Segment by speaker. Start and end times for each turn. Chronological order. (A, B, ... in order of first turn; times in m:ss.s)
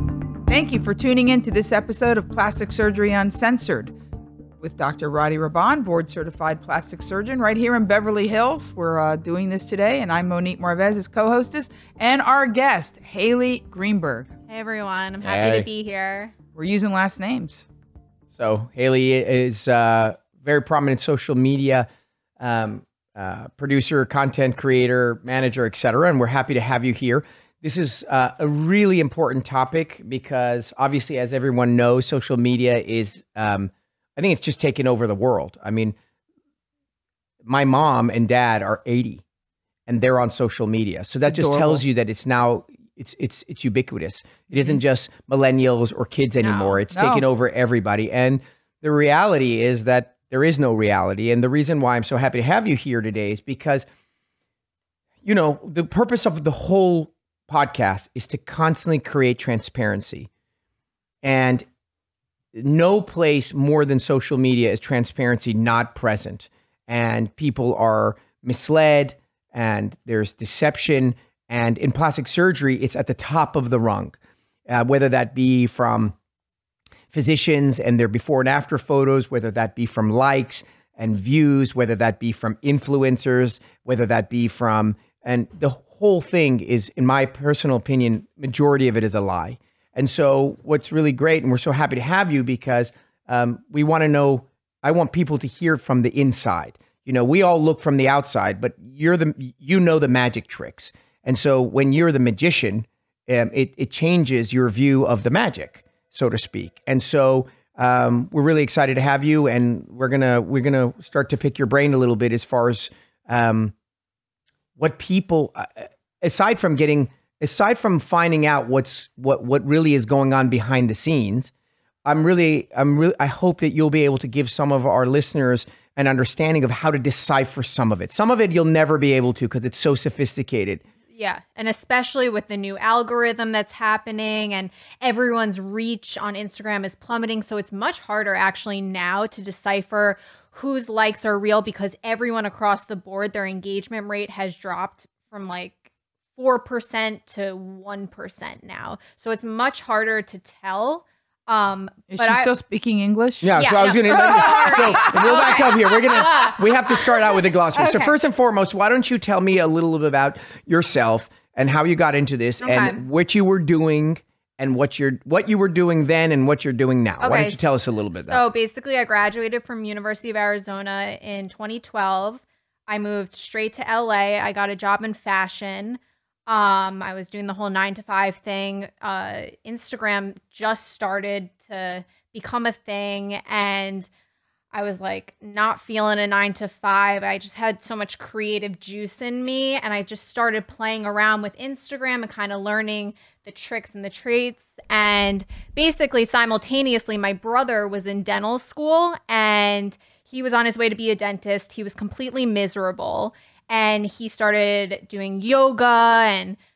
0:00.5-0:03.9 A
0:04.6-0:14.3 A
0:14.5-0:16.3 B
0:15.2-0:15.7 C
0:16.6-0:17.7 A
0:18.3-0:21.9 C
0:22.4-0:36.0 C
0:37.4-0:39.2 C
0:39.9-0:53.9 C
0:41.2-0:41.8 A
0:46.4-0:46.8 B
0:46.9-0:47.2 A
0:55.2-1:00.3 C
1:01.2-1:01.7 C
1:02.5-1:14.2 C
1:14.7-1:16.2 C
1:17.1-1:53.7 C
1:54.8-2:01.5 C
2:02.0-2:10.8 C
2:11.1-2:25.8 B
2:26.4-2:32.5 B
2:32.1-2:33.5 A
2:33.4-2:48.4 C
2:33.6-2:38.1 B
2:34.1-2:35.5 A
2:42.6-2:43.0 B
2:47.2-3:04.1 B
3:04.7-3:26.6 B